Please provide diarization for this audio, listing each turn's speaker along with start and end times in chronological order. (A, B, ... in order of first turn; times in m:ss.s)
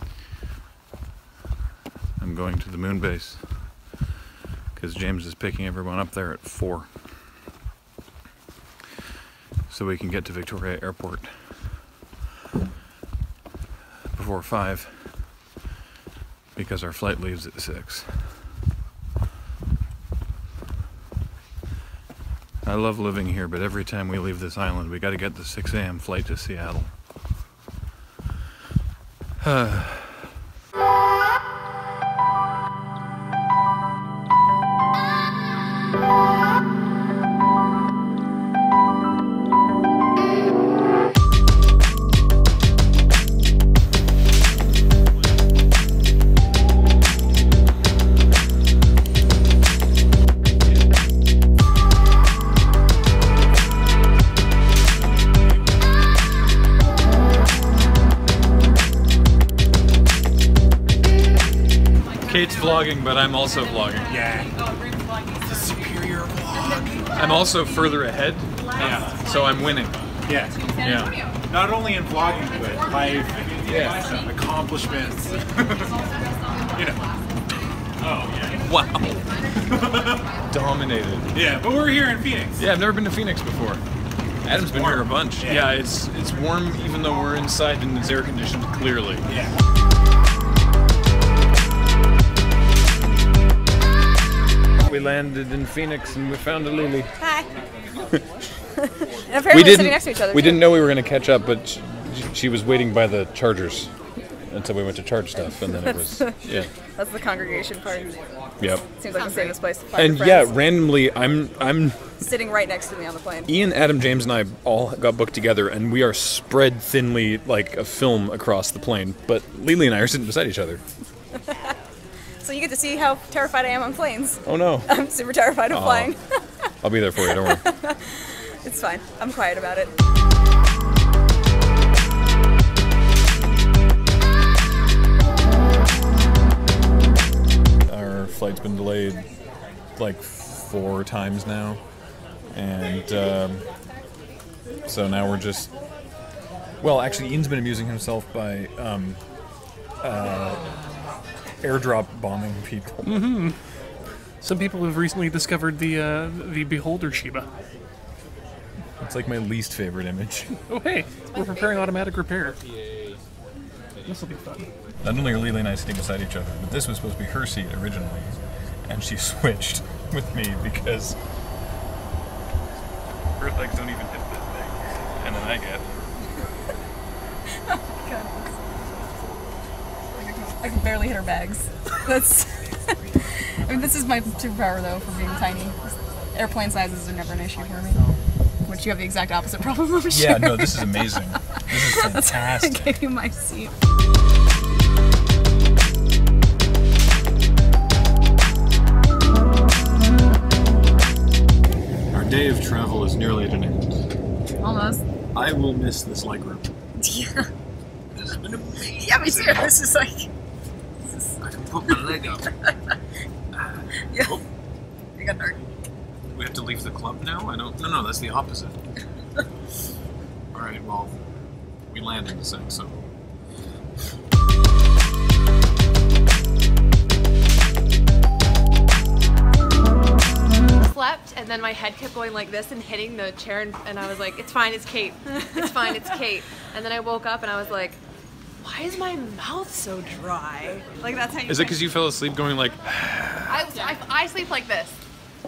0:02.2-0:03.9 A
0:04.7-0:06.9 A
0:09.7-0:11.7 A
0:14.1-0:15.2 A
0:16.5-0:18.4 A
0:22.6-0:26.9 A
0:29.4-0:30.2 A
1:02.2-1:04.2 A
1:04.0-1:04.6 B
1:05.4-1:07.1 B
1:07.1-1:09.9 A
1:08.8-1:09.2 B
1:10.2-1:10.9 B
1:10.8-1:11.1 A
1:11.5-1:16.1 B
1:13.6-1:14.1 A
1:16.7-1:17.0 B
1:18.0-1:18.5 B
1:18.4-1:19.4 A
1:20.4-1:21.3 A
1:21.3-1:22.6 B
1:22.6-1:23.8 A
1:24.4-1:29.3 A
1:24.5-1:25.8 B
1:29.2-1:29.6 B
1:34.8-1:37.1 A
1:37.2-1:37.5 C
1:39.2-1:40.8 C
1:39.5-1:43.9 A
1:44.5-1:46.7 A
1:45.4-1:48.3 C
1:48.6-1:48.8 A
1:49.0-1:50.7 C
1:49.1-1:49.6 D
1:49.9-1:52.1 A
1:52.2-1:53.5 C
1:53.4-2:00.8 A
2:02.4-2:06.7 C
2:04.4-2:04.9 A
2:05.7-2:06.1 A
2:06.8-2:07.6 A
2:07.2-2:09.9 C
2:17.8-2:19.3 A
2:20.0-2:22.0 A
2:22.5-2:23.6 A
2:24.8-2:25.7 A
2:26.8-2:29.2 A
2:30.0-2:30.7 A
2:31.6-2:33.1 A
2:33.0-2:33.6 E
2:34.4-2:37.5 E
2:39.0-2:40.6 A
2:40.7-2:42.6 E
2:44.0-2:44.7 E
2:45.0-2:48.3 A
2:48.9-2:51.2 A
2:53.4-2:55.9 A
2:58.0-2:58.6 C
3:00.1-3:02.7 C
3:03.6-3:08.0 C
3:08.6-3:11.2 C
3:10.1-3:12.9 A
3:11.7-3:13.7 C
3:22.1-3:23.9 A
3:24.6-3:25.0 C
3:25.3-3:26.6 A
3:27.0-3:27.4 C
3:28.2-3:28.8 A
3:28.9-3:30.3 C
3:31.2-3:32.1 C
3:31.8-3:32.4 A
3:34.1-3:34.4 C
3:35.2-3:35.5 C
3:36.3-3:38.7 A
3:40.5-3:41.1 A
3:41.9-3:43.0 A
3:50.8-3:58.0 D
3:58.6-4:01.9 D
4:01.4-4:03.5 A
4:03.5-4:05.0 D